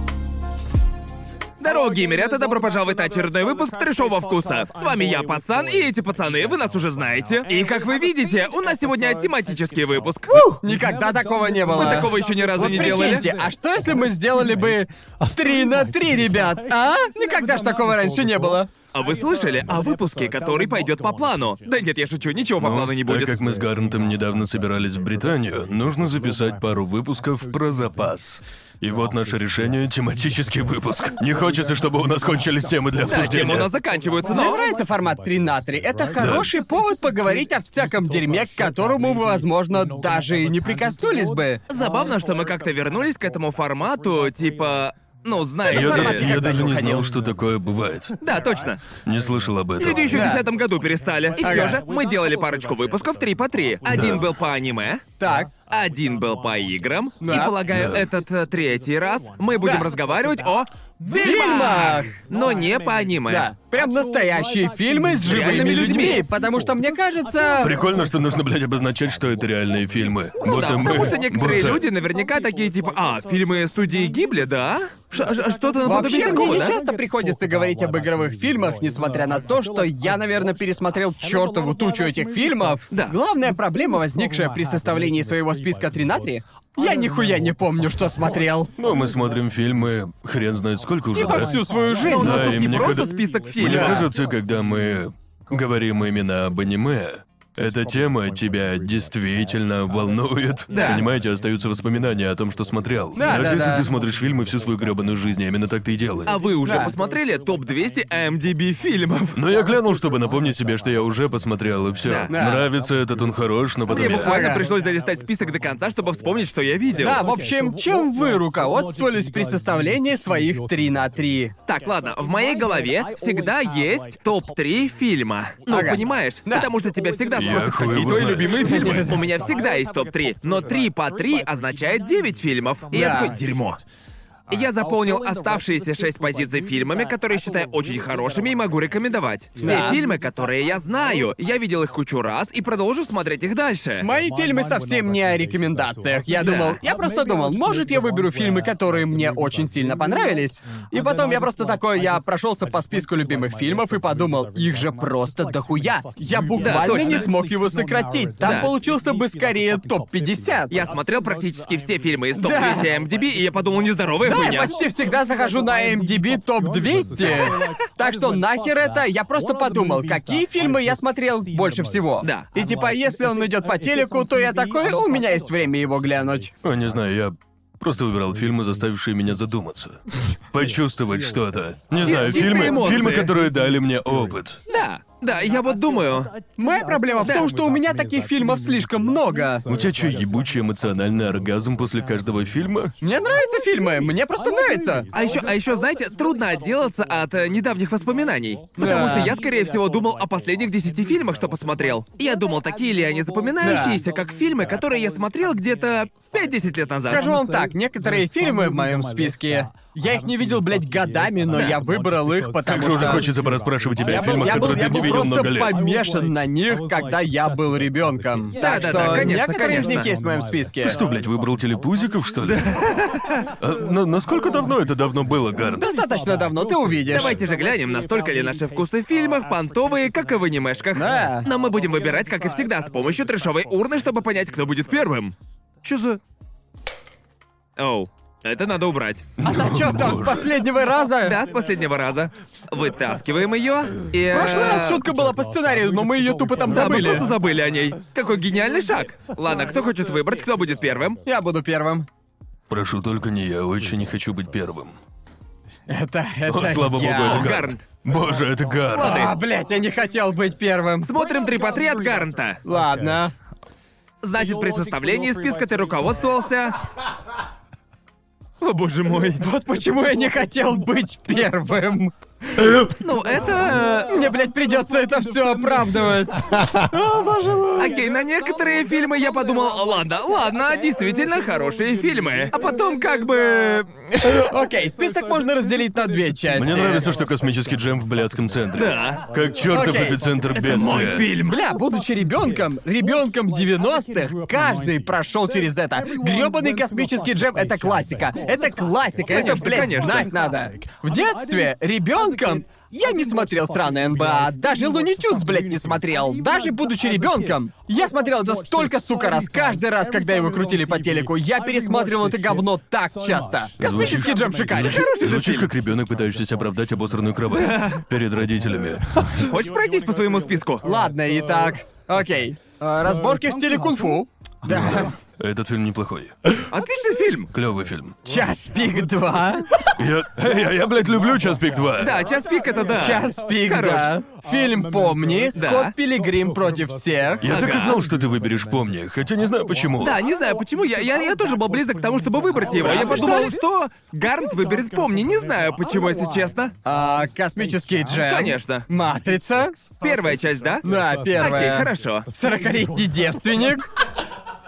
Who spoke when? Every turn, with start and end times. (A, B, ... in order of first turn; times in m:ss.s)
0:01.6-0:10.5 A
0:10.5-0:18.7 B
0:11.7-0:13.3 A
0:18.9-0:23.3 A
0:22.6-0:33.7 C
0:33.0-0:34.6 A
0:34.3-0:41.6 B
0:36.2-0:36.5 C
0:41.7-0:46.3 A
0:45.7-0:47.1 B
0:45.7-0:48.2 C
0:48.2-0:48.8 A
0:49.0-0:50.4 C
0:49.8-0:55.0 A
0:50.1-0:50.4 B
0:51.4-0:51.8 B
0:53.9-0:54.3 C
0:55.2-0:55.5 B
0:55.7-1:03.5 A
0:57.2-0:57.6 B
0:57.7-0:58.1 C
1:01.1-1:02.2 B
1:03.3-1:07.8 B
1:05.3-1:06.2 A
1:07.6-1:11.8 C
1:10.4-1:16.8 A
1:10.5-1:11.1 B
1:15.8-1:28.7 B
1:28.8-1:31.6 C
1:31.1-1:32.6 B
1:32.1-1:34.1 A
1:32.1-1:46.4 C
1:33.6-1:34.1 B
1:40.7-1:41.0 A
1:40.7-1:41.0 B
1:43.2-1:43.9 B
1:46.3-1:49.4 A
1:46.6-1:47.0 B
1:49.4-1:54.4 C
1:52.1-1:52.3 A
1:52.3-1:52.7 B
1:53.9-1:57.2 A
1:54.2-1:54.6 B
1:57.0-2:01.5 B
2:01.7-2:13.8 A
2:05.7-2:06.7 B
2:07.4-2:09.1 C
2:08.5-2:09.2 B
2:12.9-2:13.3 B
2:14.5-2:24.1 A
2:19.6-2:20.0 B
2:24.0-2:40.8 B
2:26.4-2:26.8 A
2:36.6-2:37.3 A
2:38.4-2:38.7 A
2:40.7-2:44.7 A
2:42.4-2:42.9 B
2:44.2-2:56.5 B
2:47.2-2:47.7 A
2:56.6-3:04.6 C
3:02.0-3:03.3 A
3:04.7-3:06.3 A
3:06.6-3:09.6 B
3:07.2-3:07.5 A
3:09.7-3:12.9 C
3:13.0-3:15.1 B
3:15.1-3:27.2 A
3:18.8-3:19.4 B
3:23.6-3:24.0 B
3:27.1-3:33.3 B
3:31.5-3:31.8 A
3:32.6-3:35.8 C
3:34.0-3:41.0 B
3:38.6-3:40.1 A
3:40.8-3:42.8 C
3:42.5-3:43.4 A
3:43.6-3:45.9 C
3:45.8-3:47.4 B
3:47.1-3:56.2 A
3:50.9-3:51.5 B
3:57.8-3:59.3 A
3:59.4-4:00.5 C
3:59.4-4:01.4 B
4:01.2-4:05.0 A
4:04.3-4:07.3 B
4:06.7-4:11.2 A
4:11.3-4:12.1 B
4:12.7-4:15.0 C
4:15.9-4:17.5 B
4:16.5-4:19.3 C
4:17.2-4:17.8 A
4:18.9-4:19.3 A
4:19.0-4:21.1 B
4:21.1-4:22.6 A
4:22.6-4:23.3 B
4:24.2-4:26.8 A
4:28.6-4:29.4 A
4:29.4-4:32.2 B
4:33.0-4:34.2 A
4:34.1-4:38.0 B
4:37.8-4:44.0 A
4:44.4-4:47.1 B
4:46.6-4:51.3 C
4:48.7-4:49.2 A
4:49.7-4:50.2 B
4:50.5-4:51.5 A
4:51.0-5:15.1 B
4:59.3-5:00.3 A
5:13.8-5:19.0 C
5:14.7-5:15.7 A
5:17.5-5:18.0 A
5:19.4-5:20.8 A
5:20.8-5:25.1 B
5:24.6-5:26.4 C
5:26.7-5:27.5 A
5:27.5-5:28.2 C
5:28.3-5:29.7 B
5:30.0-5:32.2 C
5:32.0-5:34.1 A
5:33.0-5:37.5 B
5:35.6-5:35.9 A
5:37.4-5:40.2 C
5:37.4-5:38.0 A
5:40.0-5:46.7 A
5:42.7-5:43.6 B
5:46.8-5:49.8 B
5:48.1-5:48.9 A
5:50.0-5:50.9 A
5:50.8-5:53.9 B
5:51.4-5:52.3 A